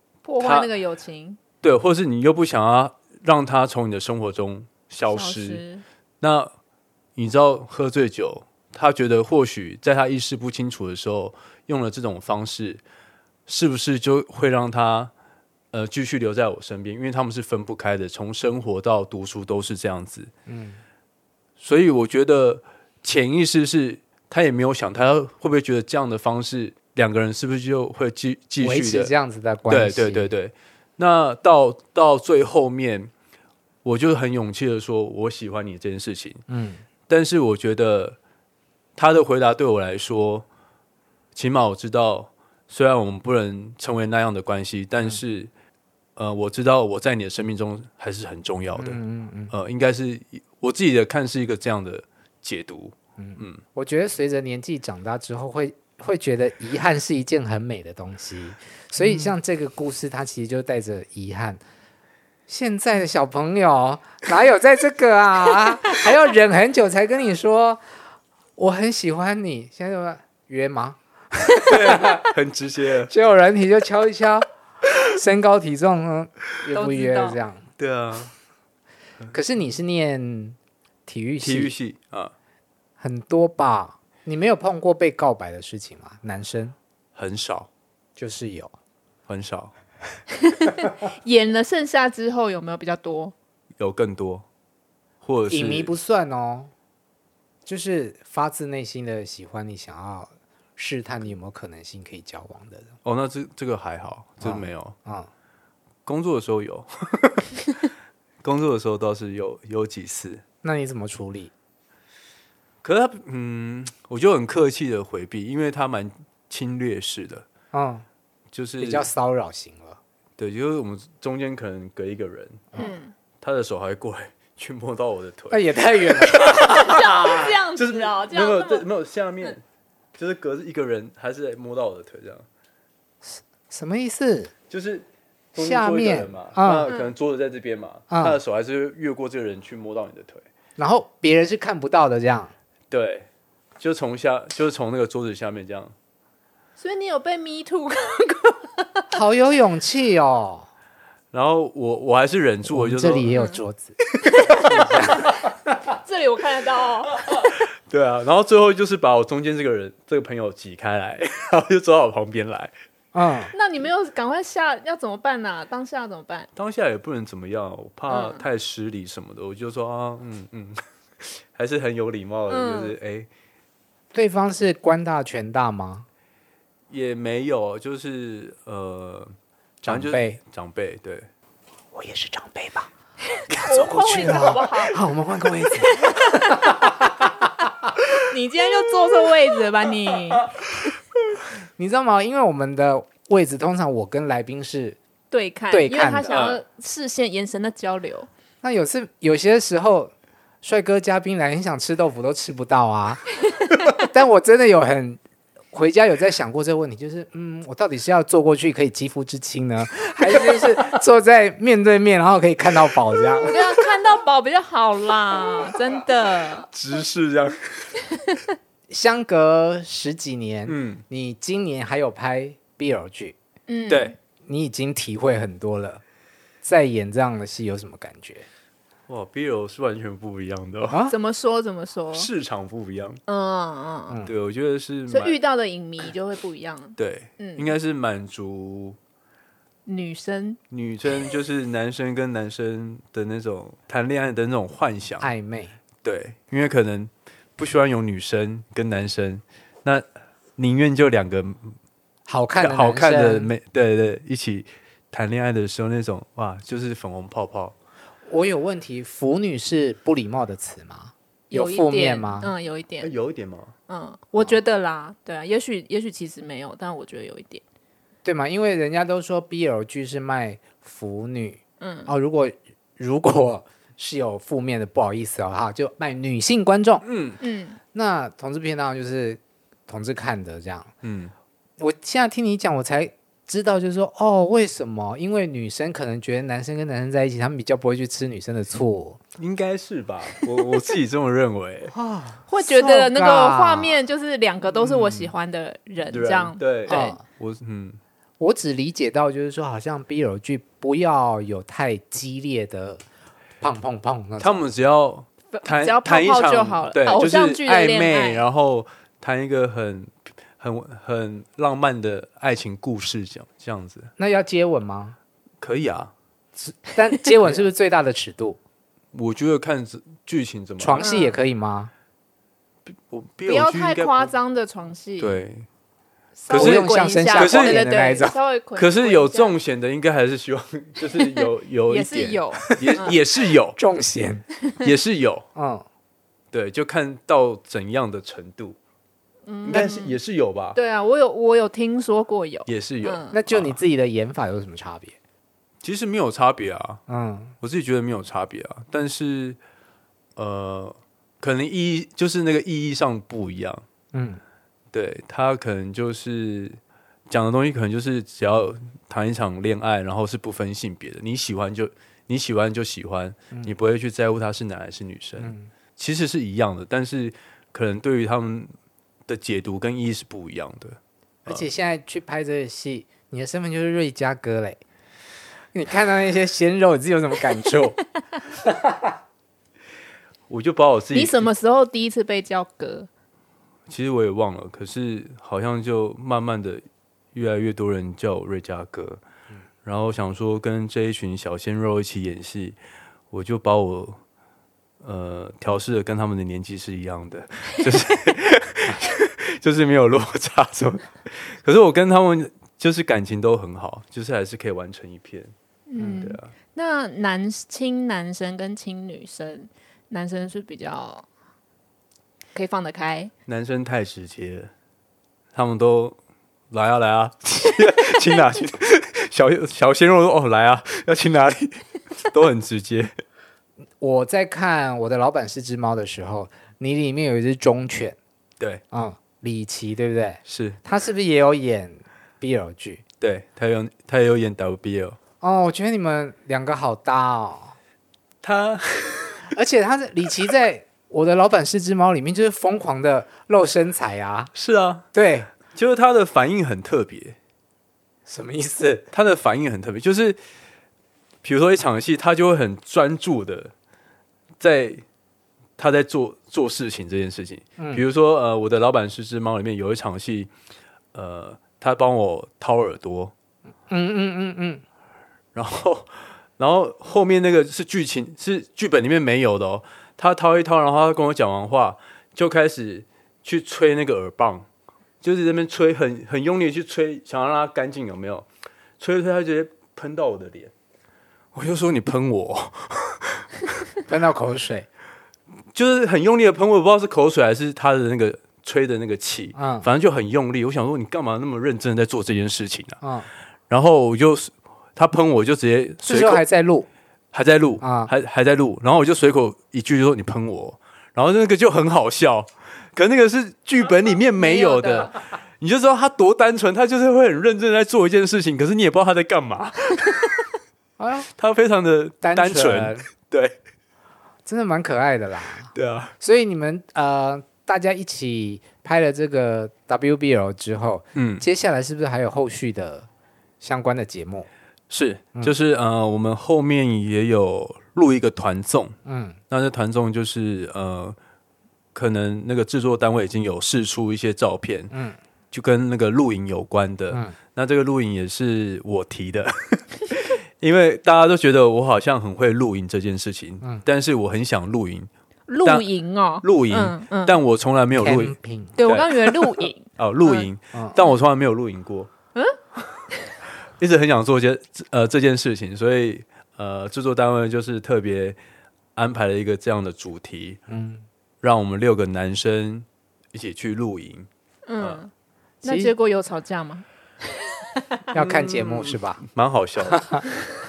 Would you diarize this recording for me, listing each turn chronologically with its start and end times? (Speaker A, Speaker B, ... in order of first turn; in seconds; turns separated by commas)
Speaker A: 0.2-1.4, Speaker B: 0.4-0.7, Speaker B: 1.6-5.6, Speaker A: 5.1-5.8, Speaker B: 6.2-6.5, Speaker B: 7.2-12.8, Speaker B: 13.5-15.1, Speaker B: 15.7-20.3, Speaker C: 20.4-20.8, Speaker B: 21.6-29.1, Speaker C: 28.6-30.3, Speaker B: 29.7-33.1, Speaker B: 33.8-36.4, Speaker C: 36.5-36.8, Speaker B: 37.1-38.2, Speaker B: 39.0-40.4, Speaker B: 41.3-45.5, Speaker B: 46.2-53.6, Speaker C: 48.8-49.5, Speaker C: 53.2-61.6, Speaker B: 59.0-59.3, Speaker C: 62.5-67.8, Speaker C: 68.6-72.3, Speaker B: 71.6-73.1, Speaker C: 73.1-74.5, Speaker C: 75.1-77.7, Speaker A: 76.7-77.4, Speaker B: 77.8-78.3, Speaker C: 79.3-81.7, Speaker B: 81.4-82.3, Speaker C: 83.0-86.8, Speaker B: 87.2-87.7, Speaker C: 88.2-88.7, Speaker B: 89.3-89.7, Speaker A: 90.4-93.3, Speaker B: 93.8-94.4, Speaker B: 95.2-95.9, Speaker C: 95.5-96.7, Speaker C: 97.7-102.9, Speaker B: 103.0-104.9, Speaker C: 104.4-105.3, Speaker B: 106.0-107.5, Speaker B: 108.4-110.4, Speaker C: 110.6-111.5, Speaker B: 112.8-117.5, Speaker C: 117.7-118.0, Speaker B: 118.5-119.1, Speaker C: 118.8-120.0, Speaker B: 120.4-122.7, Speaker A: 122.8-123.1, Speaker B: 123.4-129.6, Speaker C: 125.5-127.3, Speaker A: 126.4-128.9, Speaker B: 130.2-132.4, Speaker C: 133.2-134.5, Speaker B: 134.7-140.4, Speaker C: 135.6-136.9, Speaker C: 138.1-138.4, Speaker C: 140.8-142.5, Speaker B: 142.9-143.3, Speaker B: 143.8-145.9, Speaker A: 146.8-149.1, Speaker C: 149.1-150.7, Speaker B: 151.3-153.3, Speaker C: 152.7-154.0, Speaker A: 153.3-153.6, Speaker B: 154.3-155.1, Speaker A: 154.3-155.3, Speaker C: 154.7-155.2, Speaker A: 155.9-157.5, Speaker B: 157.4-162.7, Speaker C: 163.1-163.5, Speaker A: 163.5-166.5, Speaker B: 166.6-173.3, Speaker A: 168.1-168.4, Speaker A: 172.5-172.9, Speaker C: 174.1-176.1, Speaker B: 176.9-181.3, Speaker C: 179.8-180.4, Speaker C: 181.9-182.9, Speaker C: 183.5-187.4, Speaker A: 183.6-185.0, Speaker A: 185.8-186.7, Speaker A: 188.2-190.5, Speaker C: 191.8-195.0, Speaker A: 195.3-198.3, Speaker C: 195.7-196.3, Speaker B: 196.3-196.6, Speaker C: 198.6-200.1, Speaker C: 200.6-203.3, Speaker C: 204.0-205.2, Speaker C: 205.7-213.6, Speaker A: 213.4-216.7, Speaker B: 216.7-217.9, Speaker C: 218.9-223.3, Speaker B: 220.7-221.0, Speaker A: 223.7-224.1, Speaker B: 223.9-224.1, Speaker C: 224.4-226.0, Speaker C: 226.6-228.5, Speaker B: 229.1-231.0, Speaker C: 230.9-231.2, Speaker A: 231.1-232.3, Speaker B: 232.1-233.2, Speaker A: 233.3-234.2, Speaker B: 234.2-235.4, Speaker A: 235.1-237.7, Speaker B: 237.0-239.0, Speaker A: 239.8-240.6, Speaker B: 240.7-245.3, Speaker C: 245.2-245.7, Speaker B: 246.0-250.1, Speaker B: 250.6-251.8, Speaker C: 252.3-253.5, Speaker B: 252.6-257.7, Speaker C: 258.2-262.5, Speaker A: 261.5-263.1, Speaker B: 263.0-263.7, Speaker A: 263.9-267.6, Speaker C: 268.2-277.0, Speaker A: 271.8-272.1, Speaker B: 277.0-277.4, Speaker A: 277.4-277.8, Speaker C: 277.9-280.9, Speaker B: 281.0-281.3, Speaker C: 281.8-289.2, Speaker B: 289.4-291.9, Speaker C: 291.9-294.0, Speaker A: 292.5-297.2, Speaker C: 294.8-295.3, Speaker B: 296.1-298.0, Speaker C: 296.9-297.2, Speaker C: 298.4-303.0, Speaker C: 303.6-304.6, Speaker B: 304.4-314.1, Speaker A: 305.5-308.4, Speaker C: 314.2-315.2, Speaker B: 315.6-316.1, Speaker C: 316.6-318.6, Speaker B: 319.1-321.1, Speaker C: 320.8-321.9, Speaker A: 321.0-321.4, Speaker B: 322.9-324.3, Speaker A: 323.5-325.4, Speaker B: 325.2-325.7, Speaker A: 326.4-329.6, Speaker B: 326.5-327.9, Speaker C: 326.5-328.3, Speaker B: 328.8-333.8, Speaker A: 331.9-333.1, Speaker C: 333.8-334.5, Speaker B: 334.8-335.4, Speaker C: 335.5-335.8, Speaker B: 336.5-338.8, Speaker A: 339.5-340.2, Speaker B: 339.6-340.8, Speaker A: 340.7-343.4, Speaker B: 342.6-343.8, Speaker C: 343.3-345.1, Speaker B: 345.8-347.0, Speaker C: 347.1-347.5, Speaker B: 347.6-349.6, Speaker B: 350.4-353.8, Speaker C: 354.1-354.4, Speaker B: 354.9-368.7, Speaker C: 365.4-365.7, Speaker B: 369.3-371.6, Speaker C: 371.4-374.8, Speaker C: 375.7-378.0, Speaker C: 378.5-379.1, Speaker B: 380.5-381.5, Speaker A: 381.1-383.1, Speaker B: 383.9-389.2, Speaker B: 389.8-392.8, Speaker B: 393.3-394.2, Speaker B: 395.0-405.5, Speaker A: 405.9-411.2, Speaker C: 406.0-406.3, Speaker B: 406.2-406.5, Speaker A: 412.5-413.3, Speaker B: 413.5-414.7, Speaker B: 415.5-416.2, Speaker B: 416.7-423.1, Speaker C: 424.0-428.1, Speaker C: 428.9-433.0, Speaker B: 430.4-430.8, Speaker B: 433.2-435.2, Speaker C: 435.4-437.8, Speaker B: 438.4-439.5, Speaker C: 439.5-444.5, Speaker B: 444.5-445.1, Speaker C: 445.1-445.5, Speaker B: 445.7-447.4, Speaker C: 448.3-449.1, Speaker B: 449.1-450.4, Speaker B: 451.4-453.7, Speaker B: 454.6-455.0, Speaker B: 455.8-460.5, Speaker C: 457.8-458.0, Speaker B: 461.1-463.3, Speaker C: 463.9-464.8, Speaker B: 465.5-474.7, Speaker B: 475.2-478.4, Speaker B: 479.0-480.7, Speaker B: 481.5-483.5, Speaker C: 484.1-484.9, Speaker B: 485.7-493.0, Speaker C: 489.6-489.9, Speaker C: 493.0-493.3, Speaker B: 493.7-496.4, Speaker C: 496.1-496.9, Speaker B: 497.3-510.3, Speaker C: 497.8-498.1, Speaker A: 504.4-505.1, Speaker C: 511.0-511.3, Speaker B: 511.4-513.6, Speaker C: 512.2-513.0, Speaker C: 514.5-523.1, Speaker B: 515.7-516.1, Speaker B: 521.1-521.4, Speaker C: 523.6-524.5, Speaker B: 524.9-529.0, Speaker C: 529.0-529.4, Speaker B: 529.5-531.2, Speaker B: 531.9-534.9, Speaker C: 534.9-535.2, Speaker B: 535.5-545.1, Speaker C: 537.1-537.4, Speaker A: 545.5-547.4, Speaker B: 546.4-552.1, Speaker C: 548.0-548.8, Speaker A: 548.8-550.5, Speaker B: 553.8-558.4, Speaker B: 558.9-560.6, Speaker C: 560.7-561.0, Speaker B: 561.4-564.3, Speaker A: 564.7-565.1, Speaker A: 565.6-566.8, Speaker B: 565.6-565.9, Speaker A: 567.7-568.0, Speaker C: 568.1-569.2, Speaker B: 568.1-570.2, Speaker C: 569.9-570.2